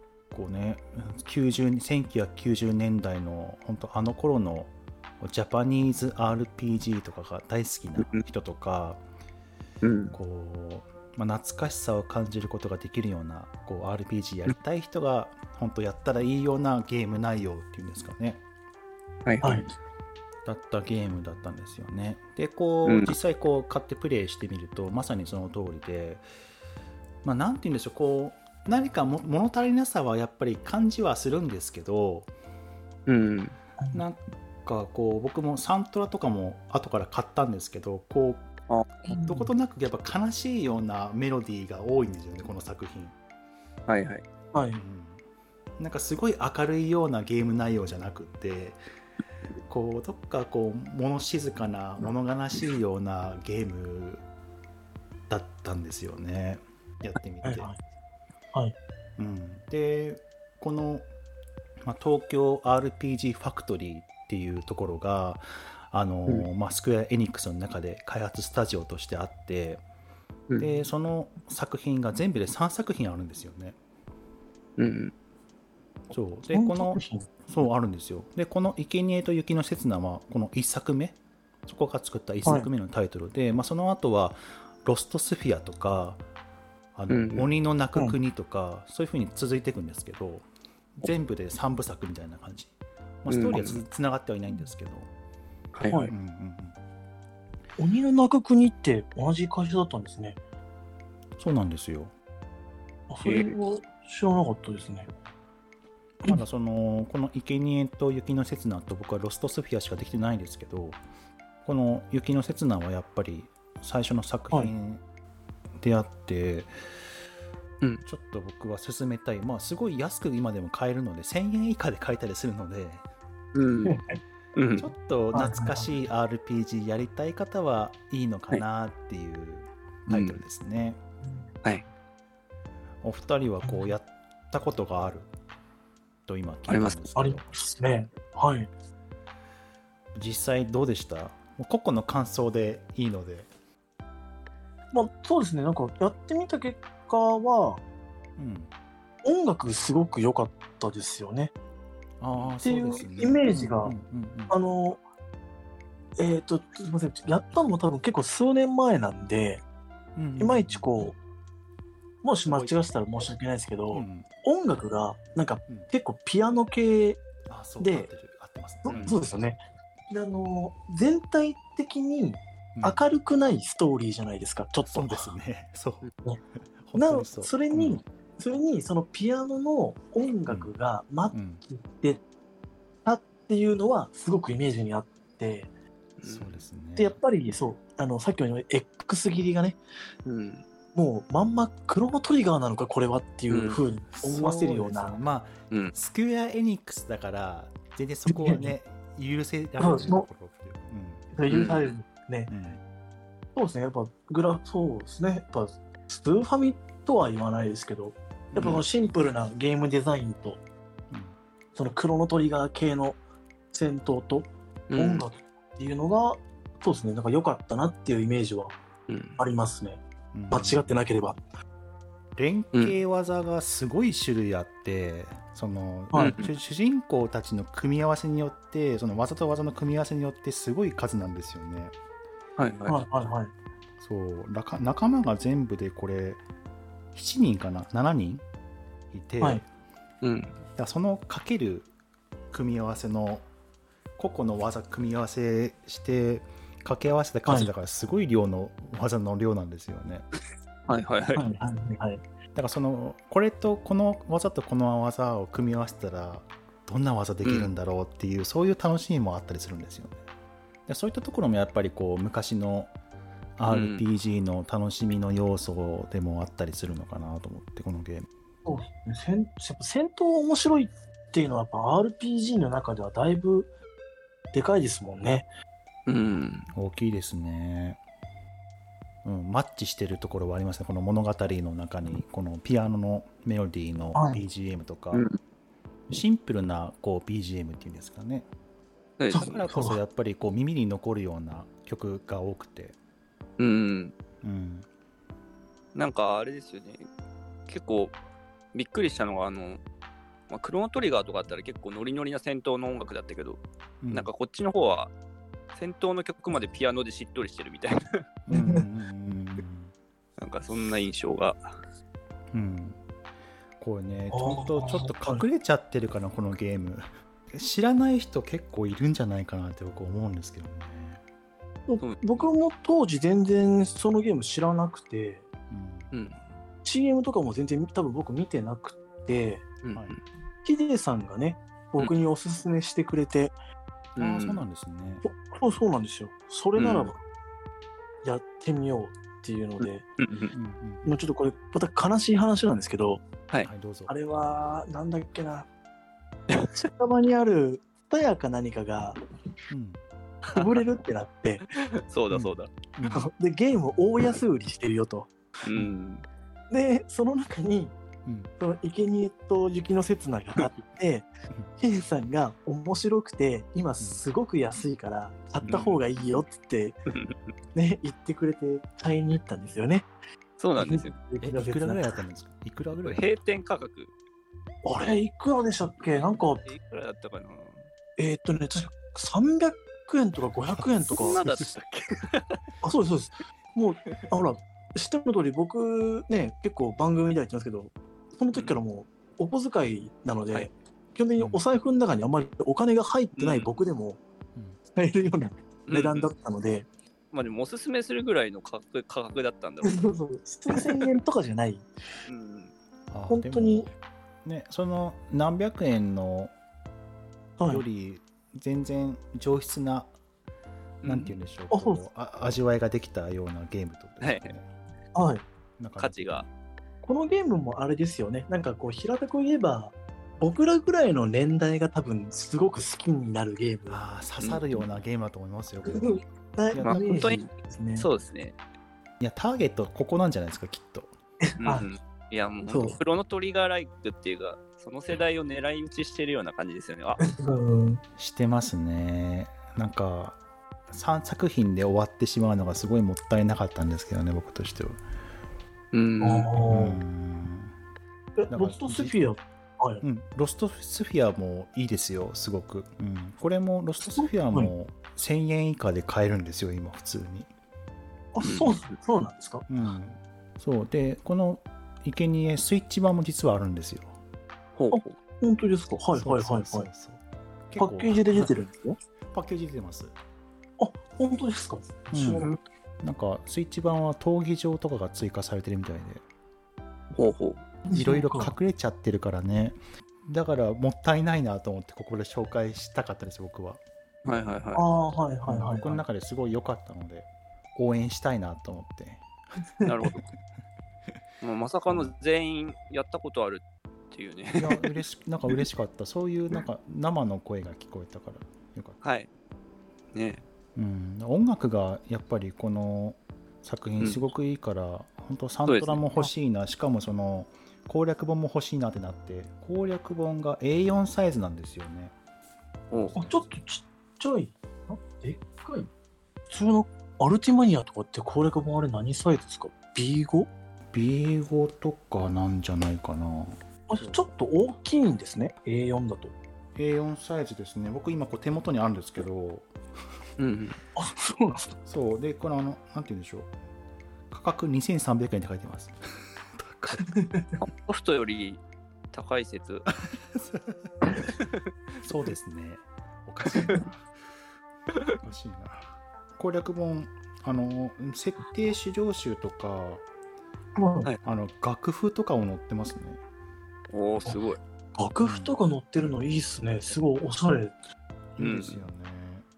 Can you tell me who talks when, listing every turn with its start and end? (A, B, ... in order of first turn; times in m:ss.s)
0:00.3-0:04.7 A
0:05.2-0:09.0 A
0:09.8-0:10.2 B
0:10.1-0:18.4 A
0:19.2-0:19.7 B
0:19.4-0:19.7 C
0:20.5-0:26.2 A
0:22.8-0:23.2 B
0:27.2-0:32.3 A
0:33.1-0:33.6 B
0:33.9-0:38.5 A
0:39.1-0:39.5 C
0:39.1-0:43.2 A
0:43.9-0:44.2 B
0:44.5-0:44.8 C
0:44.8-0:45.2 A
0:45.8-0:48.8 A
0:49.7-0:54.2 A
0:55.3-0:57.7 A
0:57.4-0:57.8 C
0:59.2-1:01.1 A
1:01.8-1:09.8 A
1:10.6-1:13.8 A
1:14.8-1:15.1 B
1:16.1-1:26.2 A
1:16.5-1:17.3 C
1:22.4-1:22.7 C
1:27.0-1:32.7 A
1:27.1-1:27.5 B
1:33.2-1:35.1 A
1:33.3-1:33.8 B
1:35.7-1:36.1 B
1:35.9-1:36.1 C
1:36.1-1:36.8 A
1:37.8-1:40.4 C
1:41.4-1:42.1 A
1:43.1-1:45.1 C
1:43.2-1:43.5 B
1:46.2-1:51.0 A
1:51.6-1:55.0 A
1:55.8-1:56.7 A
1:58.0-2:03.0 A
2:03.5-2:04.0 B
2:03.8-2:04.2 C
2:04.6-2:04.9 B
2:04.8-2:11.0 A
2:05.3-2:05.9 C
2:10.1-2:10.4 B
2:13.0-2:15.3 A
2:16.3-2:17.4 A
2:16.7-2:17.0 B
2:17.2-2:18.7 C
2:20.2-2:23.5 A
2:24.9-2:27.8 C
2:28.4-2:28.7 A
2:29.2-2:31.5 C
2:32.2-2:34.6 A
2:32.6-2:34.0 C
2:34.5-2:35.0 C
2:36.2-2:39.6 C
2:40.2-2:40.9 A
2:40.4-2:41.2 C
2:42.2-2:47.2 C
2:42.5-2:42.8 A
2:43.9-2:44.3 A
2:47.5-2:49.3 A
2:47.8-2:48.1 C
2:48.8-2:55.3 C
2:48.9-2:49.2 B
2:52.8-2:53.0 A
2:54.9-2:56.1 A
2:56.8-2:58.0 A
2:57.0-3:02.2 C
3:01.3-3:01.6 A
3:03.0-3:05.7 C
3:06.2-3:06.5 B
3:06.2-3:07.2 A
3:07.0-3:09.8 C
3:10.2-3:10.6 B
3:11.0-3:15.2 C
3:13.5-3:13.8 B
3:14.1-3:21.3 A
3:18.3-3:18.7 C
3:19.8-3:20.3 C
3:21.3-3:22.5 C
3:21.5-3:21.9 B
3:22.5-3:22.8 A
3:23.6-3:30.6 C
3:28.6-3:28.8 B
3:31.1-3:31.4 A
3:31.8-3:33.2 C
3:33.7-3:38.8 C
3:34.9-3:35.3 B
3:39.1-3:39.4 B
3:39.4-3:41.4 C
3:40.3-3:41.0 A
3:42.4-3:51.9 A
3:46.1-3:46.4 C
3:46.2-3:46.5 B
3:52.6-3:53.0 B
3:52.9-3:53.5 C
3:54.0-3:56.4 A
3:57.1-3:58.4 A
3:59.1-3:59.6 A
4:00.2-4:00.6 B
4:00.8-4:01.9 A
4:02.5-4:03.5 A
4:04.2-4:10.2 A
4:10.9-4:11.4 B
4:11.4-4:12.2 C
4:12.6-4:20.2 A
4:17.4-4:17.7 B
4:20.9-4:22.9 A
4:23.6-4:28.3 A
4:23.7-4:24.0 B
4:28.6-4:33.7 C
4:34.5-4:35.5 C
4:36.1-4:36.7 B
4:36.7-4:38.0 A
4:39.2-4:45.3 A
4:44.2-4:44.4 C
4:46.1-4:48.5 A
4:49.2-4:49.6 B
4:49.3-4:50.0 C
4:49.4-4:53.0 A
4:53.6-4:54.1 B
4:54.4-4:54.9 A
4:56.0-4:57.1 B
4:57.7-4:58.1 B
4:58.7-4:59.8 B
5:00.5-5:03.6 B
5:04.0-5:04.3 A
5:04.1-5:05.1 B
5:05.7-5:08.0 B
5:08.5-5:09.9 A
5:08.5-5:08.8 C
5:10.4-5:11.8 B
5:12.5-5:13.0 A
5:13.8-5:21.2 A
5:14.3-5:15.4 C
5:21.9-5:25.5 C
5:22.0-5:22.5 B
5:25.7-5:26.1 A
5:26.1-5:26.4 B
5:26.8-5:29.7 C
5:29.8-5:30.2 B
5:30.6-5:33.6 C
5:34.2-5:34.6 B
5:34.2-5:35.2 A
5:35.2-5:37.2 C
5:36.8-5:37.1 B
5:38.2-5:40.1 C
5:40.2-5:40.5 B
5:40.5-5:41.1 A
5:41.0-5:43.2 C
5:43.6-5:44.6 A
5:44.1-5:45.7 C
5:46.8-5:49.2 C
5:49.7-5:50.0 A
5:50.4-5:51.7 C
5:51.7-5:52.7 B
5:52.3-5:53.3 A
5:53.1-5:55.3 C
5:55.6-5:56.2 B
5:56.7-5:58.0 C
5:58.2-5:58.5 A
5:58.6-6:07.0 C
6:05.7-6:06.0 B
6:07.1-6:07.4 B
6:07.8-6:10.1 C
6:10.6-6:11.2 B
6:10.8-6:12.2 C
6:11.4-6:13.3 A
6:13.0-6:14.1 B
6:14.8-6:16.7 C
6:16.7-6:17.8 B
6:18.2-6:21.4 C
6:21.1-6:22.6 B
6:21.1-6:21.7 A
6:22.8-6:34.2 C
6:33.4-6:33.7 B
6:34.9-6:36.9 C
6:35.9-6:36.3 B
6:37.3-6:40.1 B
6:39.8-6:41.9 C
6:40.7-6:41.0 B
6:42.3-6:42.7 B
6:43.1-6:43.9 A
6:43.3-6:43.9 C
6:44.4-6:46.5 A
6:47.6-6:47.8 C
6:47.7-6:50.1 A
6:51.0-6:51.3 B
6:51.0-6:54.7 A
6:51.7-6:52.0 C
6:54.2-6:54.5 B
6:55.2-6:55.5 C
6:55.8-6:56.4 A
6:56.0-6:56.5 B
6:57.0-7:04.0 C
7:03.9-7:06.1 A
7:05.9-7:08.1 C
7:06.7-7:07.0 A
7:06.8-7:08.6 B
7:09.2-7:11.1 A
7:11.4-7:11.9 C
7:11.6-7:17.2 B
7:12.7-7:13.0 C
7:17.2-7:18.0 C
7:18.2-7:20.4 A
7:20.9-7:25.0 A
7:25.9-7:26.5 B
7:26.2-7:27.0 C
7:26.7-7:27.8 A
7:28.4-7:30.0 C
7:28.5-7:29.4 A
7:30.0-7:37.5 A
7:34.0-7:34.7 C
7:38.3-7:39.6 C
7:38.4-7:38.8 B
7:39.7-7:44.1 A
7:44.8-7:45.2 B
7:44.9-7:46.9 C
7:46.2-7:48.6 A
7:47.8-7:49.0 C
7:49.3-7:50.2 A
7:50.8-7:52.6 C
7:52.1-7:56.2 A
7:57.1-7:57.6 B
7:57.9-7:58.5 C
7:57.9-8:03.8 A
8:04.2-8:04.8 B
8:04.8-8:06.0 C
8:05.5-8:09.3 A
8:09.8-8:10.3 B
8:11.4-8:14.9 B
8:14.6-8:19.0 A
8:19.0-8:19.3 B
8:20.1-8:20.4 B
8:20.8-8:32.2 A
8:25.7-8:26.0 B
8:32.9-8:33.2 B
8:32.9-8:33.5 A
8:33.2-8:35.9 C
8:36.5-8:40.5 C
8:40.9-8:44.3 A
8:43.9-8:46.3 C
8:46.8-8:49.7 A
8:50.4-8:50.8 B
8:51.0-8:51.8 C
8:51.8-8:53.5 A
8:54.3-8:57.2 A
8:57.0-8:57.6 C
8:57.6-8:58.6 B
8:59.1-8:59.9 B
9:00.1-9:01.0 A
9:01.3-9:01.5 B
9:02.0-9:04.1 A
9:05.2-9:10.0 A
9:10.8-9:11.1 C
9:11.2-9:13.2 A
9:13.9-9:14.6 B
9:15.0-9:17.8 C
9:15.2-9:16.1 A
9:18.4-9:19.5 A
9:18.4-9:18.8 B